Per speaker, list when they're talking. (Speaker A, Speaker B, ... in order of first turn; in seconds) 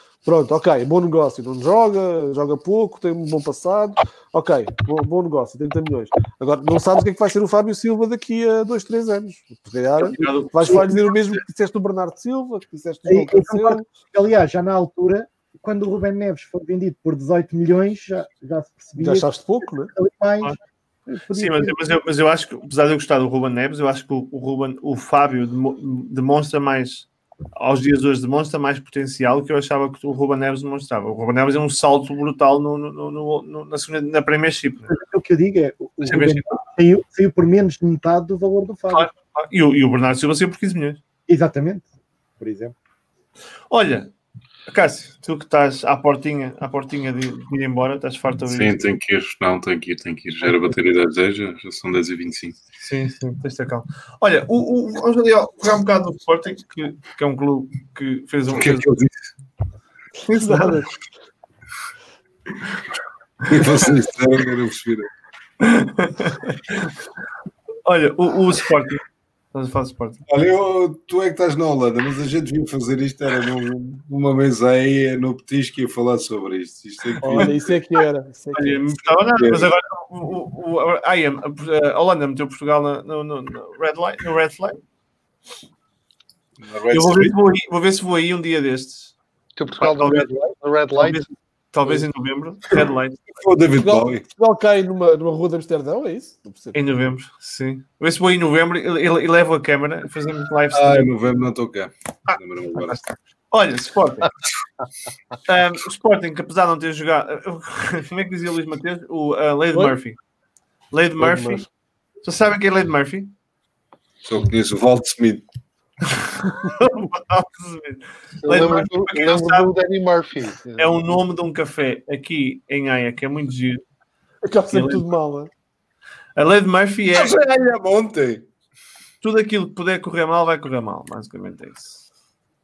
Speaker A: 0.2-13.8, 19.0-19.9, 60.4-61.0, 77.2-79.1, 93.8-96.8, 111.2-111.7, 124.4-125.5
Speaker B: 10.0-11.4, 21.3-34.9, 36.0-36.6, 38.9-41.0, 43.7-44.1, 44.7-48.8, 52.8-58.9, 60.2-60.8, 65.6-66.9, 67.8-69.0, 69.5-70.2, 78.5-84.8, 86.9-89.1, 89.8-90.3, 91.0-93.3, 96.7-101.1, 102.3-104.3, 105.5-110.2, 110.9-111.6, 112.2-113.3, 116.1-119.7, 120.8-123.8, 124.7-125.0, 126.3-127.4, 129.2-132.0
Speaker C: 13.1-19.4, 19.9-20.6, 21.1-21.7, 34.9-39.1, 41.3-41.9, 42.4-42.7
Speaker D: 48.5-52.5, 58.5-59.1, 63.5-65.1, 70.3-77.5, 86.6-87.3, 93.3-94.2, 100.7-103.0, 114.2-115.4, 127.1-128.4
Speaker E: 89.6-91.2, 118.4-121.0